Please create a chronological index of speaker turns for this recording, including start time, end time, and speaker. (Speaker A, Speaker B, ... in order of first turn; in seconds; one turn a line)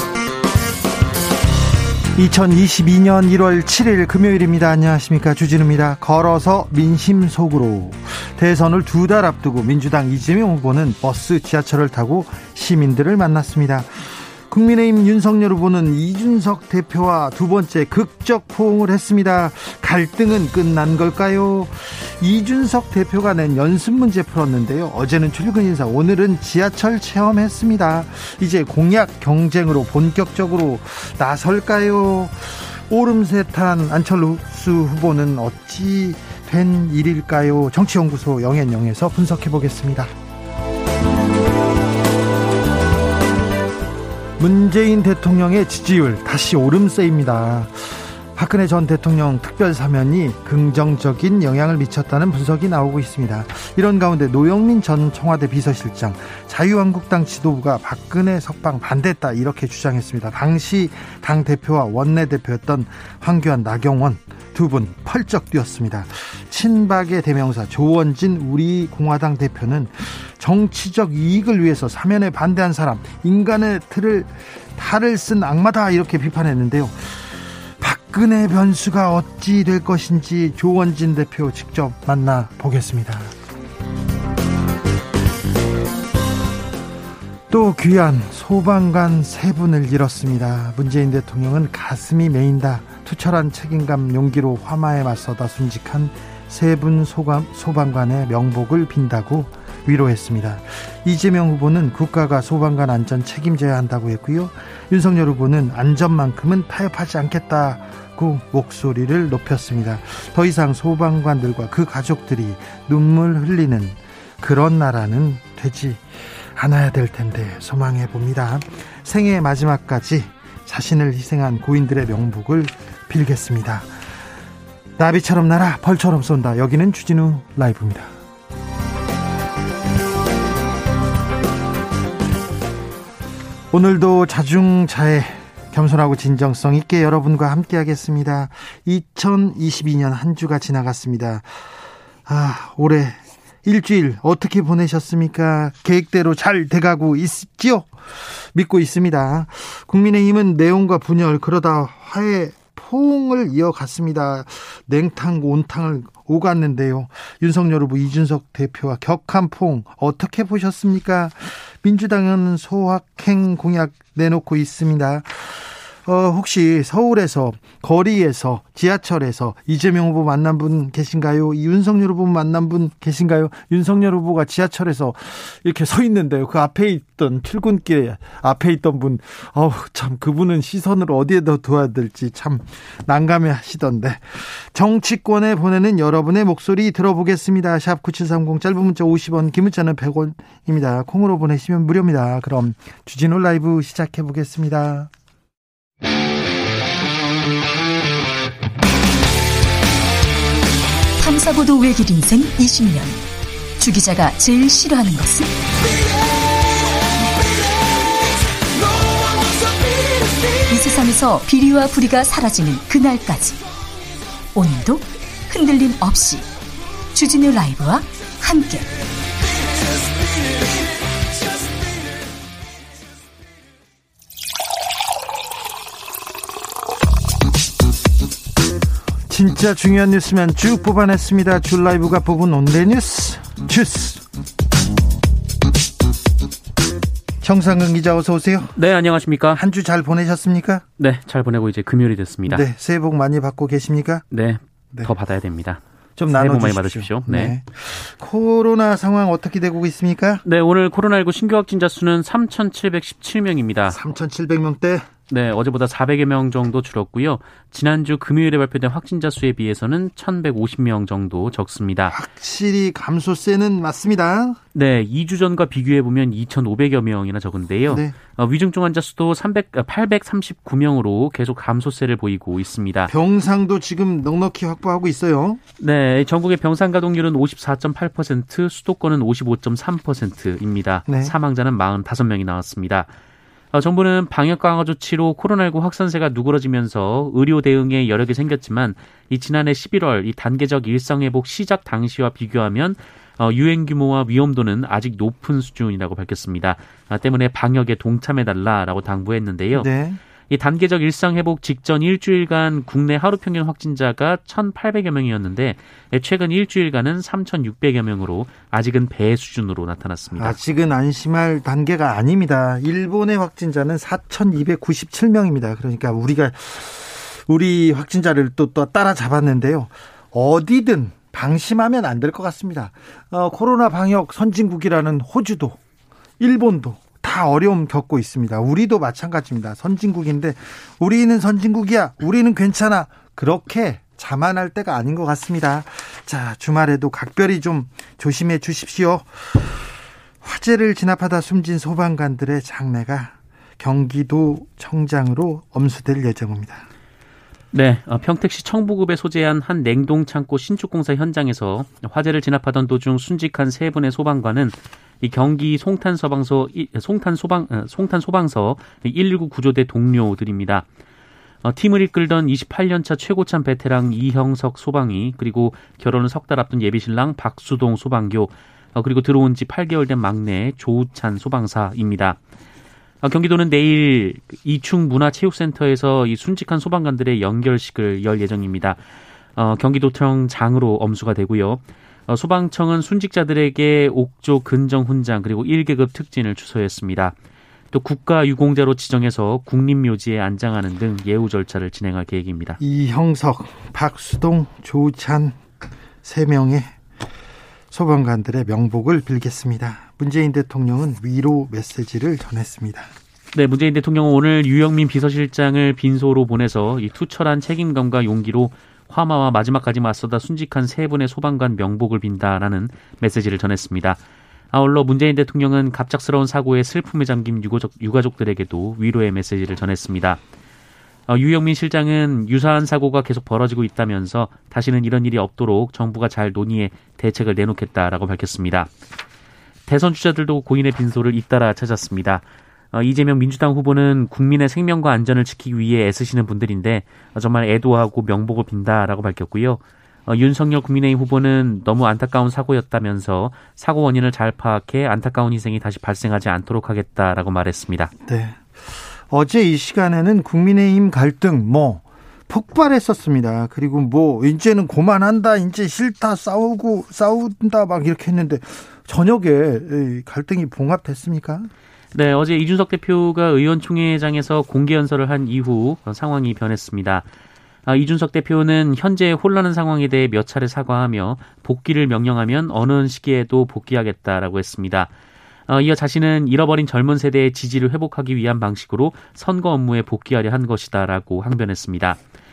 Speaker A: 2.2-40.1
Speaker A: 44.4-83.3
Speaker A: 87.5-123.9
Speaker A: 125.0-128.1
Speaker A: 133.7-141.6
Speaker A: 142.3-195.1
Speaker B: 201.2-203.2
Speaker B: 203.8-205.5
Speaker B: 210.7-213.6
Speaker B: 214.5-216.5
Speaker B: 217.1-219.0
Speaker A: 229.3-234.2
Speaker A: 237.4-238.8
Speaker C: 238.8-239.6
Speaker A: 239.5-240.8
Speaker C: 241.0-242.7
Speaker A: 242.5-244.2
Speaker C: 244.3-245.8
Speaker A: 246.2-250.4
Speaker C: 246.3-247.6
Speaker C: 250.4-254.0
Speaker A: 253.9-255.1
Speaker C: 255.3-262.2
Speaker A: 262.1-264.6
Speaker C: 264.7-273.1
Speaker A: 267.9-268.1
Speaker A: 273.1-275.6
Speaker C: 275.8-283.1
Speaker A: 281.1-281.3
Speaker C: 283.7-299.9
Speaker A: 299.8-300.2
Speaker C: 300.5-310.6
Speaker A: 310.4-325.8
Speaker A: 326.4-339.9
Speaker A: 340.4-346.9
Speaker C: 347.7-360.9
Speaker C: 361.6-372.4
Speaker C: 373.2-379.0
Speaker C: 379.6-387.4
Speaker C: 387.9-392.8
Speaker A: 392.8-395.6
Speaker A: 396.2-396.9
Speaker A: 397.9-403.1
Speaker C: 403.5-414.2
Speaker C: 414.7-420.4
Speaker C: 421.3-428.9
Speaker C: 429.9-448.1
Speaker A: 448.3-461.7
Speaker C: 462.1-467.3
Speaker C: 467.9-475.1
Speaker C: 475.7-482.2